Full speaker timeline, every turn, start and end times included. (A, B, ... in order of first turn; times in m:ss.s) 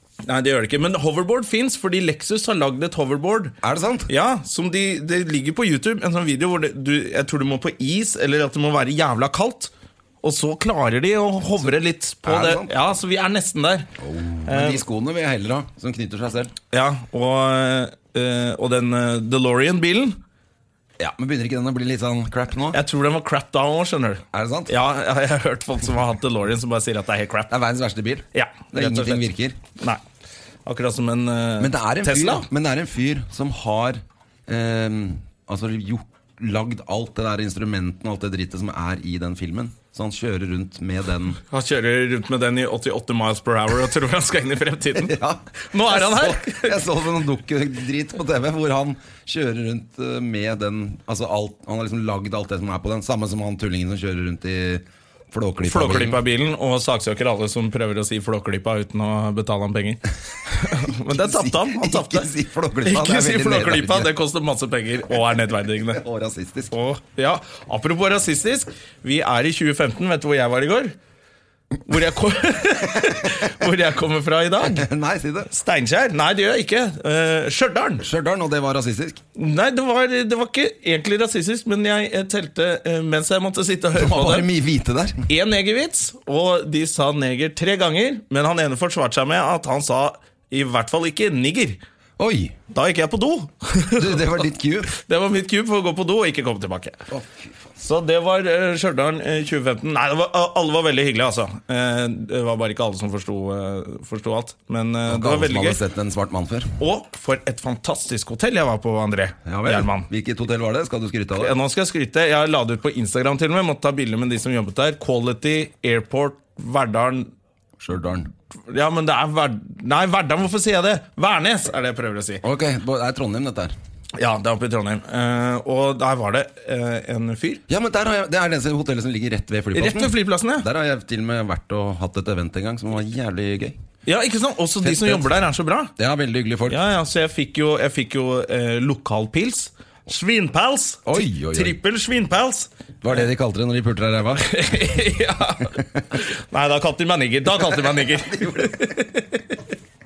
0:00.2-0:03.5 A
0:03.6-0:04.1 B
0:04.1-0:09.7 A
0:10.2-0:13.9 A
0:12.2-0:12.7 B
0:14.0-0:16.5 B
0:14.4-0:14.8 A
0:16.7-0:20.2 A
0:21.0-0:22.8 B
0:22.7-0:27.5 A
0:24.3-0:24.7 B
0:27.5-0:29.6 B
0:28.3-0:29.2 A
0:30.6-0:32.4 A
0:31.6-0:41.4 B
0:41.4-0:46.8 A
0:45.0-0:56.2 B
0:55.6-1:02.3 A
1:00.8-1:04.1 B
1:02.8-1:06.0 A
1:05.9-1:06.7 B
1:06.7-1:10.9 A
1:11.8-1:14.9 A
1:13.0-1:13.3 B
1:14.6-1:15.5 B
1:15.5-1:18.0 A
1:18.0-1:19.2 B
1:19.4-1:24.5 A
1:23.9-1:25.3 B
1:25.3-1:31.8 A
1:32.2-1:32.6 B
1:32.7-1:34.3 A
1:33.9-1:34.9 B
1:34.9-1:37.0 A
1:37.1-1:37.7 B
1:37.8-1:45.8 A
1:45.1-1:46.8 B
1:46.8-1:50.1 A
1:49.4-1:51.6 B
1:51.4-1:57.3 A
1:57.8-1:58.3 B
1:58.7-2:02.4 A
2:02.4-2:03.7 B
2:04.1-2:07.6 A
2:07.7-2:13.8 B
2:09.7-2:10.6 A
2:14.0-2:15.9 A
2:14.8-2:15.4 B
2:16.0-2:16.8 B
2:16.7-2:22.7 A
2:21.0-2:21.8 B
2:23.0-2:24.8 B
2:24.4-2:29.6 A
2:27.6-2:28.8 B